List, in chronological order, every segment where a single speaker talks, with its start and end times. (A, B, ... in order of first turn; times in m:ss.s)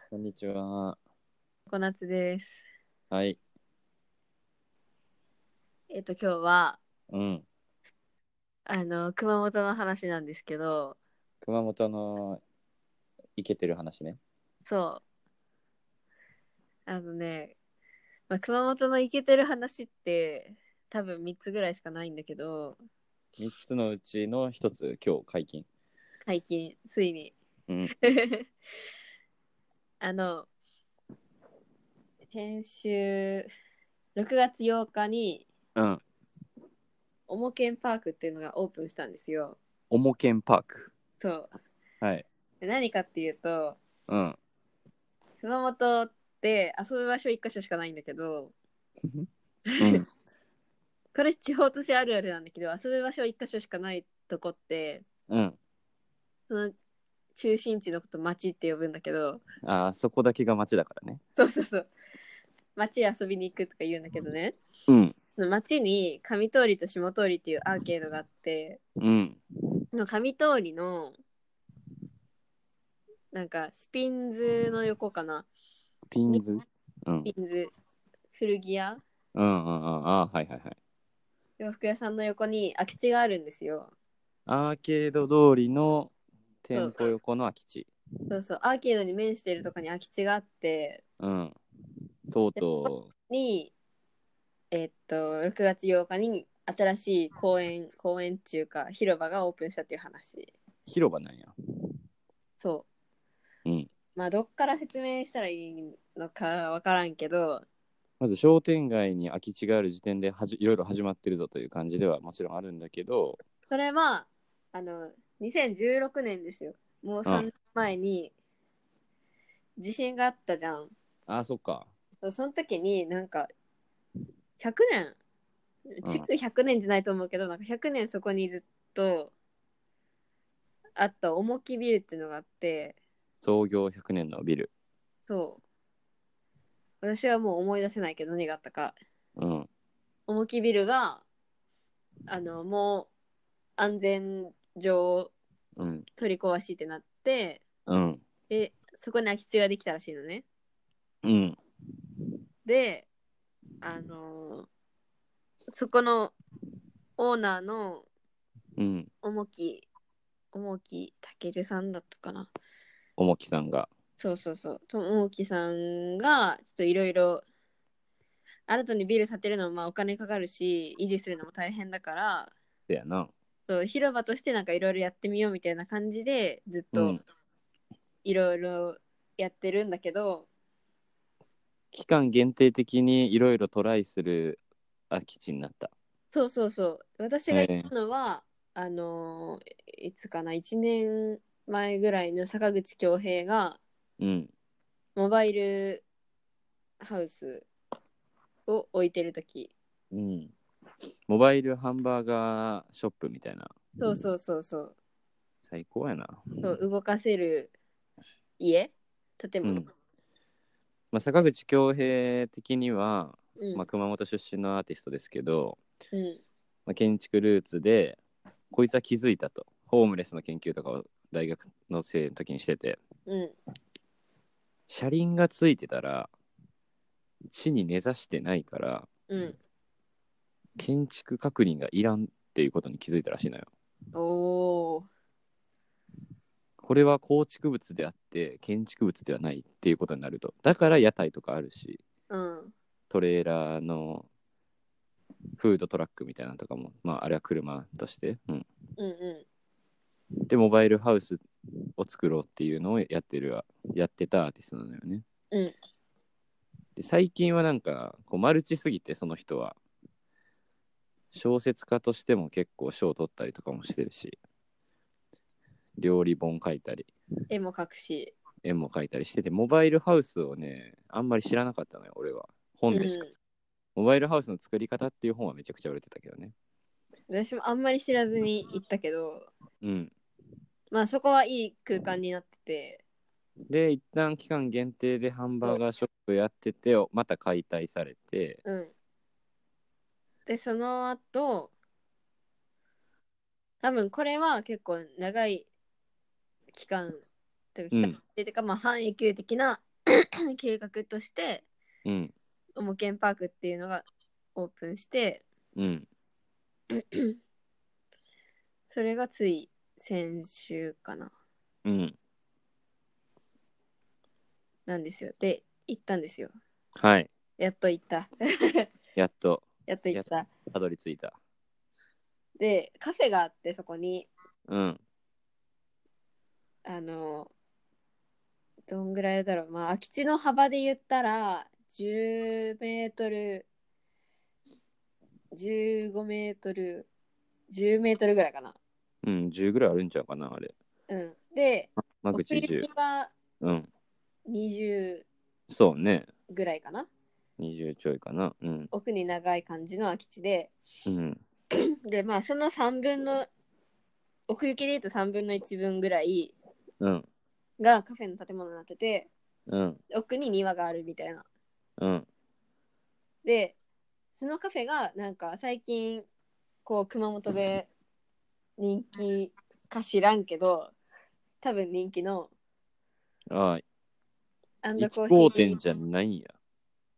0:00.1-0:01.0 A
0:01.7-0:02.7 B
0:03.1-0:03.4 A
0:05.9-0:06.8 B
0:07.1-0:07.4 A
0:08.7-0:11.0 B
0:11.4-0:12.4 A
0:13.4-0:14.2 A
0:14.7-0:15.0 B
0:16.9-0:17.6 B
0:18.3-0:22.8 B
0:23.4-0:25.7 A
0:26.3-0:27.3 B
0:27.7-0:27.9 A
0:28.0-0:28.5 B
0:30.0-0:30.5 B
0:32.3-0:33.5 B
0:34.2-0:35.5 B
0:35.8-0:36.0 A
0:37.3-0:39.6 B
0:39.9-0:40.9 A
0:41.2-0:41.5 B
0:42.0-0:42.3 A
0:42.6-0:43.8 B
0:44.1-0:44.4 A
0:45.4-0:48.5 B
0:49.7-0:50.0 B
0:49.8-0:50.1 A
0:51.1-0:55.0 B
0:55.3-0:55.6 A
0:56.5-0:56.7 B
0:57.4-0:59.4 B
0:59.6-1:01.2 A
1:01.4-1:01.9 B
1:02.8-1:04.6 B
1:04.9-1:05.2 A
1:05.4-1:08.8 B
1:09.0-1:09.4 A
1:09.9-1:11.2 B
1:13.3-1:15.5 B
1:16.1-1:17.3 A
1:17.2-1:17.7 B
1:18.3-1:19.0 B
1:19.3-1:20.8 A
1:21.6-1:23.9 B
1:24.5-1:26.1 A
1:26.6-1:27.9 A
1:26.7-1:27.1 B
1:28.3-1:31.0 B
1:31.2-1:31.6 A
1:32.3-1:33.1 A
1:33.3-1:33.7 B
1:34.7-1:40.5 B
1:40.9-1:41.5 A
1:42.6-1:42.9 B
1:44.2-1:47.6 B
1:48.2-1:53.4 A
1:53.7-1:58.3 B
1:59.8-2:00.9 B
2:01.3-2:01.9 A
2:02.2-2:03.5 B
2:04.6-2:05.2 B
2:06.0-2:09.3 B
2:06.0-2:06.3 A
2:11.0-2:13.0 B
2:13.4-2:14.7 A
2:15.3-2:15.6 B
2:17.0-2:19.0 B
2:19.4-2:19.7 A
2:20.3-2:21.2 B
2:22.3-2:23.1 B
2:23.8-2:25.3 B
2:25.8-2:26.1 A
2:26.2-2:27.6 B
2:27.9-2:28.2 A
2:28.5-2:30.4 B
2:31.2-2:31.6 A
2:32.6-2:33.1 B
2:33.8-2:34.7 B
2:35.7-2:36.3 B
2:37.2-2:38.1 B
2:38.8-2:39.1 A
2:39.2-2:39.9 B
2:40.5-2:42.5 B
2:43.2-2:43.9 A
2:44.2-2:47.4 B
2:48.7-2:52.5 B
2:52.9-2:53.3 A
2:53.7-2:57.2 B
2:56.9-2:57.2 A
2:58.2-3:00.5 B
3:01.9-3:05.9 A
3:06.3-3:13.8 B
3:07.5-3:07.9 A
3:14.2-3:14.5 A
3:15.2-3:16.0 B
3:17.0-3:17.7 B
3:18.7-3:19.7 B
3:20.1-3:20.5 A
3:21.3-3:23.8 A
3:24.0-3:25.0 B
3:25.7-3:26.6 A
3:26.6-3:27.7 B
3:28.6-3:29.9 B
3:29.6-3:29.9 A
3:31.1-3:35.8 A
3:33.6-3:33.9 B
3:36.1-3:36.4 B
3:36.9-3:38.2 A
3:38.7-3:43.0 A
3:43.3-3:43.6 B
3:44.9-3:46.3 A
3:47.5-3:49.1 A
3:49.3-3:49.6 B
3:50.8-3:53.7 A
3:54.2-3:55.1 B
3:56.8-4:02.0 A
4:02.3-4:02.7 B
4:03.1-4:04.3 A
4:05.6-4:08.7 A
4:09.0-4:09.4 B
4:10.5-4:11.4 A
4:12.0-4:15.2 A
4:17.0-4:19.8 A
4:21.3-4:24.4 A
4:26.0-4:27.1 A
4:27.5-4:28.4 B
4:28.6-4:33.2 A
4:32.9-4:33.3 B
4:34.0-4:36.5 A
4:37.3-4:39.5 B
4:39.8-4:40.1 A
4:40.9-4:43.0 B
4:43.7-4:48.6 A
4:48.6-4:48.9 B
4:50.5-4:51.7 B
4:53.8-4:55.7 B
4:56.7-4:57.2 B
4:57.8-5:01.7 B
4:57.9-4:58.2 A
5:02.0-5:02.3 A
5:02.8-5:05.4 B
5:05.8-5:06.1 A
5:06.9-5:07.3 B
5:08.9-5:11.3 B
5:11.8-5:12.2 A
5:14.9-5:16.5 B
5:17.0-5:17.3 A
5:17.6-5:18.9 B
5:19.2-5:21.4 A
5:19.9-5:20.5 B
5:22.6-5:24.3 B
5:24.7-5:25.0 A
5:26.8-5:27.5 B
5:28.9-5:33.7 B
5:35.5-5:37.1 B
5:37.7-5:38.8 B
5:39.2-5:40.7 A
5:41.1-5:43.3 B
5:42.2-5:42.9 A
5:43.6-5:43.9 A
5:44.5-5:45.3 B
5:45.7-5:46.3 A
5:46.5-5:47.1 B
5:47.6-5:48.9 A
5:48.9-5:50.7 B
5:51.1-5:51.4 A
5:51.7-5:53.5 B
5:54.5-5:56.6 B
5:57.0-5:57.3 A
5:57.8-5:59.3 B
5:59.7-6:00.0 A
6:00.1-6:01.5 B
6:02.0-6:02.3 A
6:03.4-6:03.8 B
6:04.4-6:06.3 B
6:06.8-6:07.9 B
6:08.8-6:10.9 B
6:11.6-6:12.5 B
6:13.5-6:13.8 A
6:14.8-6:15.8 B
6:15.0-6:16.5 A